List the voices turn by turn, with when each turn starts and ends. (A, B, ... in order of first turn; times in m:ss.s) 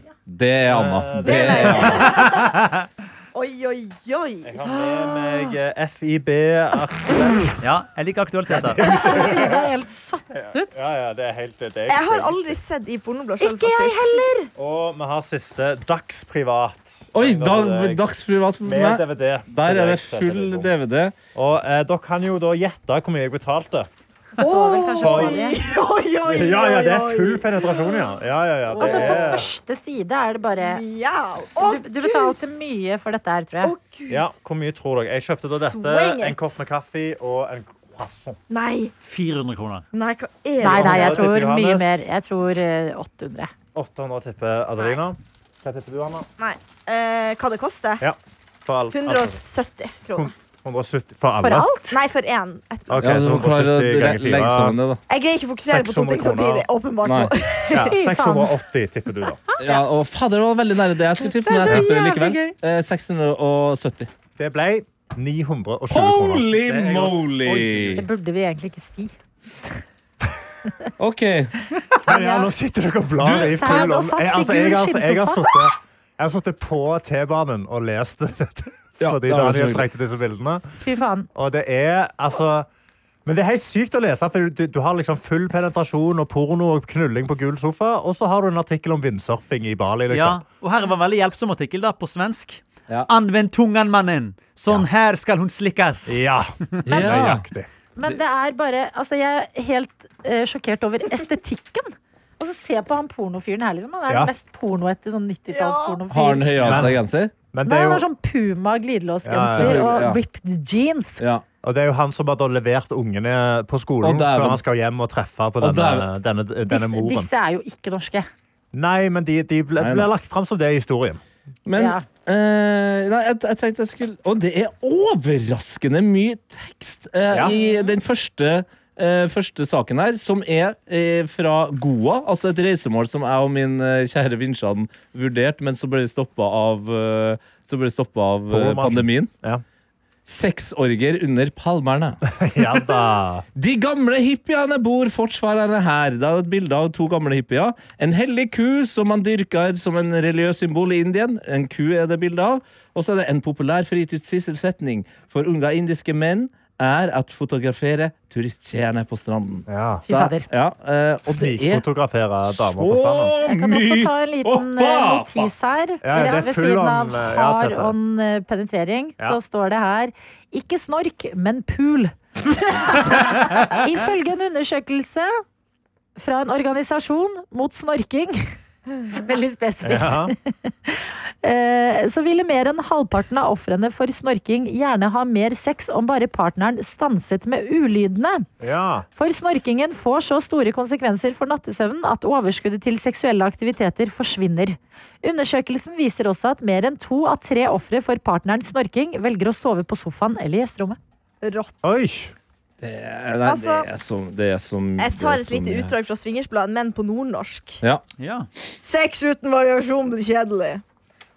0:00.3-0:02.2 A
0:00.6-0:02.0 B
0:01.2-0:02.5 C
0:02.3-0:02.7 D
0:03.3-0:04.5 C
0:04.4-0:07.6 B
0:04.6-0:05.5 E
0:07.6-0:08.8 D
0:08.5-0:09.7 B
0:08.8-0:10.7 E
0:10.3-0:12.6 B
0:11.9-0:14.3 C
0:13.4-0:14.5 E
0:14.6-0:18.0 B
0:17.1-0:21.2 A
0:18.6-0:20.7 B
0:21.4-0:23.9 B
0:24.4-0:28.1 C
0:24.4-0:25.6 E
0:25.0-0:25.6 B
0:26.2-0:29.5 B
0:28.7-0:29.4 C
0:28.8-0:30.8 E
0:30.6-0:32.3 C
0:31.6-0:33.7 E
0:33.6-0:34.2 C
0:34.1-0:38.4 B
0:35.6-0:36.6 C
0:38.5-0:38.9 C
0:39.0-0:39.9 D
0:39.9-0:41.3 C
0:40.6-0:43.5 E
0:40.6-0:42.0 B
0:43.8-0:46.3 B
0:46.4-0:48.1 C
0:48.0-0:49.4 B
0:48.9-0:50.3 C
0:50.2-0:51.7 B
0:51.4-0:52.0 E
0:51.9-0:53.1 C
0:52.9-0:54.8 B
0:53.0-0:55.0 A
0:55.1-0:57.9 C
0:55.6-0:56.7 B
0:57.0-0:57.3 A
0:57.7-0:59.4 B
0:57.9-0:58.5 E
0:59.6-0:59.8 E
0:59.6-1:04.1 A
1:01.3-1:02.6 E
1:04.4-1:06.5 B
1:05.9-1:08.0 A
1:06.6-1:08.0 D
1:08.0-1:09.8 E
1:11.0-1:11.5 A
1:12.0-1:20.6 B
1:12.1-1:12.5 E
1:13.2-1:13.8 A
1:13.2-1:15.5 E
1:19.0-1:19.9 A
1:20.8-1:21.3 E
1:21.4-1:22.7 B
1:23.2-1:30.4 B
1:30.1-1:36.2 D
1:36.1-1:37.7 B
1:36.8-1:37.4 A
1:36.9-1:37.4 E
1:38.0-1:46.8 E
1:45.5-1:46.0 C
1:46.1-1:47.3 A
1:46.6-1:47.0 B
1:47.5-1:48.1 B
1:47.6-1:51.2 E
1:49.2-1:49.9 B
1:49.5-1:50.2 A
1:51.2-1:51.4 A
1:51.6-1:57.3 B
1:54.0-1:54.6 A
1:55.6-1:56.1 A
1:56.7-1:58.3 E
1:58.7-2:01.2 B
1:59.8-2:00.1 A
2:01.6-2:19.3 A
2:01.8-2:02.0 E
2:07.5-2:07.9 C
2:18.5-2:19.6 B
2:20.3-2:41.9 A
2:22.3-2:23.4 B
2:39.7-2:40.0 B
2:40.0-2:40.5 E
2:41.2-2:43.4 B
2:42.4-2:45.5 A
2:43.4-2:52.1 E
2:46.0-2:47.9 B
2:52.8-2:55.4 E
2:56.2-2:58.5 E
2:59.1-3:08.5 E
2:59.8-3:00.4 B
3:08.6-3:09.1 B
3:09.2-3:21.0 E
3:21.4-3:22.0 C
3:21.8-3:22.3 B
3:22.8-3:26.0 A
3:23.4-3:23.9 C
3:25.0-3:27.8 C
3:28.2-3:28.5 D
3:28.8-3:30.8 C